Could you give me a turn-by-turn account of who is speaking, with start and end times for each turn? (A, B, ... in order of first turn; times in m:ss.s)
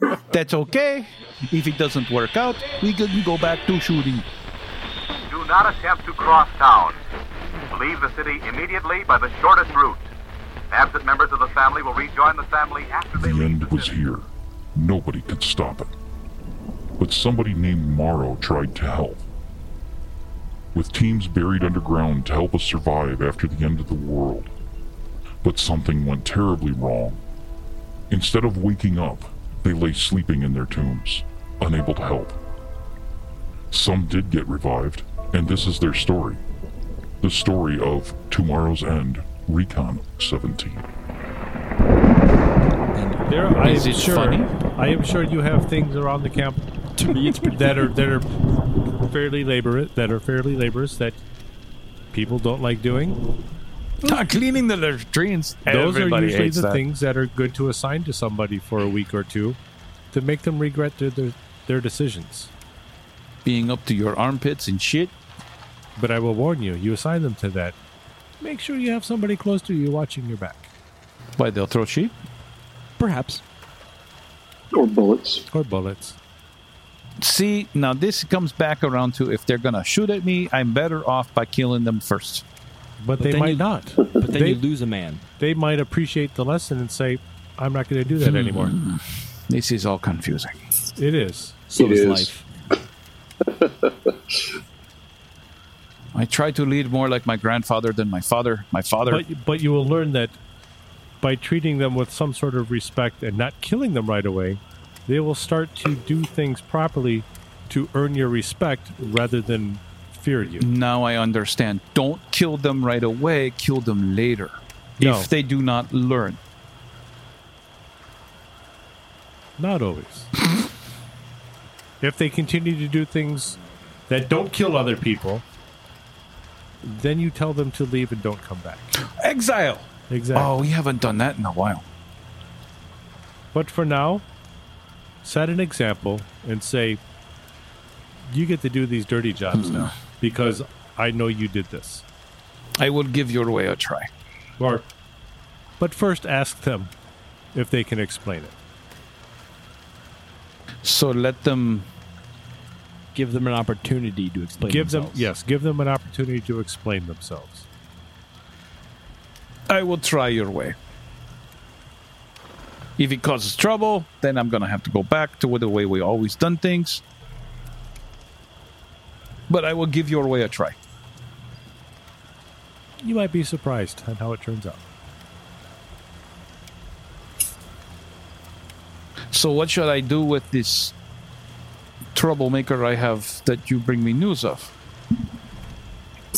0:00.3-0:04.3 A
0:05.3-0:07.0 B
0:07.7-0:10.1 B
0:10.7-0:14.0 B
0:13.2-0:15.9 C
0:17.0-0:19.2 C
0:20.7-0:24.5 C
0:25.4-0:27.2 C
0:28.1-0:32.4 C
0:33.7-0:36.4 C
0:37.2-0:40.9 C
0:43.0-0:43.4 D
0:43.3-0:46.7 E
0:43.6-0:44.5 A
0:47.0-0:47.9 D
0:47.2-0:48.4 E
0:48.9-0:51.2 E
0:52.1-0:53.2 E
0:54.0-0:56.8 A
0:55.7-0:59.6 E
1:00.1-1:02.5 E
1:03.4-1:05.1 A
1:06.0-1:07.8 E
1:08.4-1:10.7 E
1:11.4-1:12.1 A
1:13.0-1:13.4 D
1:14.7-1:15.4 F
1:15.5-1:16.2 E
1:17.2-1:22.4 A
1:23.0-1:24.6 E
1:23.2-1:25.2 D
1:25.4-1:28.8 E
1:28.2-1:30.6 A
1:31.0-1:31.6 E
1:31.7-1:32.4 D
1:31.8-1:32.3 F
1:33.4-1:34.4 F
1:36.1-1:39.2 A
1:39.1-1:40.4 E
1:41.2-1:50.7 E
1:50.6-1:56.4 A
1:55.0-1:55.3 E
1:59.6-2:00.3 E
2:02.0-2:03.6 E
2:04.1-2:05.4 E
2:06.8-2:08.9 E
2:09.1-2:11.8 A
2:10.1-2:10.7 E
2:13.5-2:14.2 E
2:15.2-2:17.0 E
2:18.3-2:22.0 E
2:19.5-2:19.9 A
2:22.8-2:24.1 A
2:24.6-2:24.9 E
2:25.8-2:26.9 E
2:27.5-2:28.5 E
2:30.8-2:31.9 A
2:33.2-2:35.3 D
2:34.6-2:37.7 E
2:39.7-2:40.8 A
2:43.0-2:47.0 A
2:49.5-2:50.8 A
2:53.0-2:54.8 E
2:59.3-3:00.9 A
3:02.2-3:04.7 A